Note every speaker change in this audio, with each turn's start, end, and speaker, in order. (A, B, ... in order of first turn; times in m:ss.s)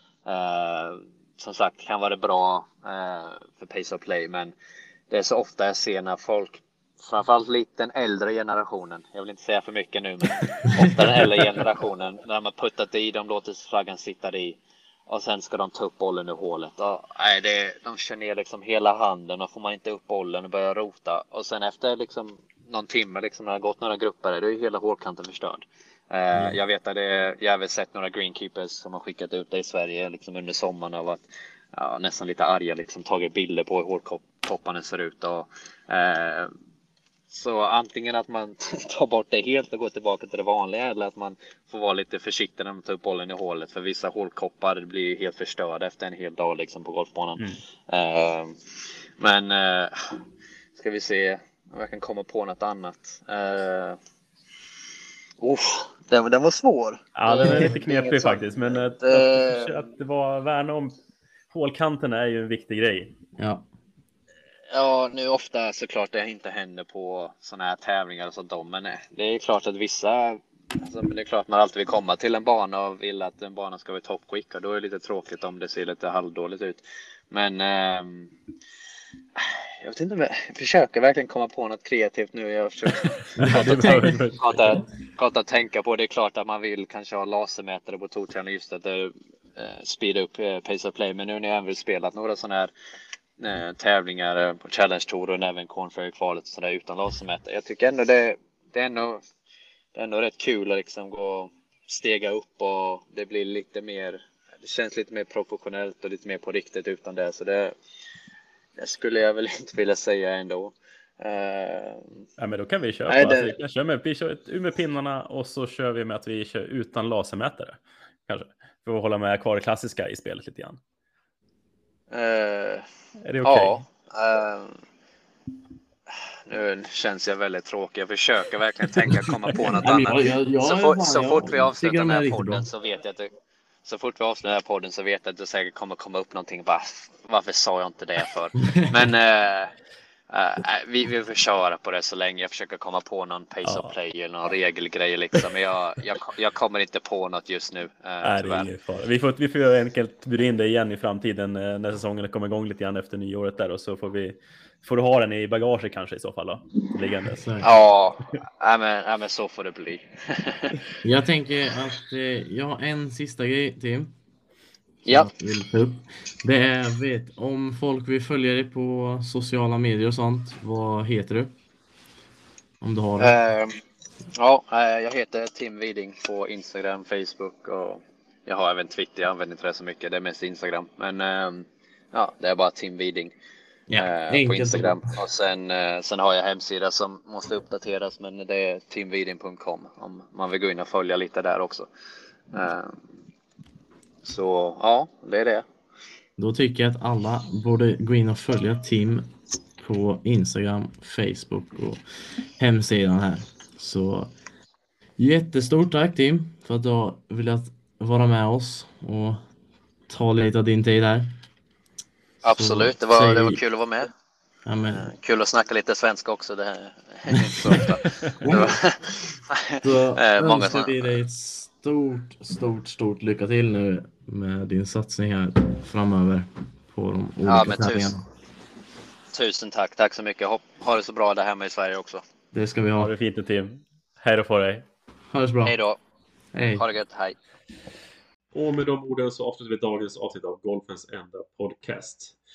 0:00.3-0:04.5 A
0:05.1-0:36.5 A
0:37.3-0:48.6 A
0:49.2-0:50.2 A
0:50.8-0:54.0 A
0:55.4-0:59.8 A
0:57.2-1:00.9 B
1:01.5-1:03.1 B
1:03.4-1:03.7 C
1:04.7-1:18.3 A
1:19.4-1:32.7 A
1:23.4-1:24.6 B
1:33.4-1:39.2 A
1:40.0-1:47.8 A
1:48.8-1:52.2 A
1:52.4-2:00.8 B
1:53.1-1:53.6 A
2:02.1-2:02.9 A
2:03.2-2:03.8 B
2:03.4-2:04.8 A
2:06.1-2:13.3 A
2:09.8-2:12.7 C
2:13.8-2:19.7 A
2:20.3-2:28.7 A
2:23.6-2:23.9 B
2:28.2-2:37.4 B
2:37.4-2:37.7 C
2:37.6-2:40.8 A
2:41.0-2:44.1 C
2:45.1-2:51.5 C
2:52.8-2:53.4 C
2:53.2-2:53.8 A
2:54.4-3:03.3 A
3:03.9-3:05.0 C
3:04.0-3:11.9 A
3:12.5-3:13.0 A
3:14.2-3:15.6 A
3:16.4-3:19.3 C
3:19.8-3:22.0 C
3:22.6-3:24.3 C
3:25.2-3:29.4 C
3:30.1-3:31.3 C
3:32.4-3:34.1 A
3:32.4-3:33.6 C
3:34.6-3:35.1 C
3:34.9-3:41.2 A
3:37.3-3:37.9 C
3:38.4-3:38.8 C
3:39.8-3:48.3 C
3:47.4-3:48.2 A
3:49.3-3:52.2 A
3:52.5-3:53.1 C
3:53.0-3:54.9 B
3:55.3-3:55.8 C
3:55.6-3:56.0 A
3:56.5-3:56.8 C
3:56.8-3:57.4 A
3:58.5-4:02.4 D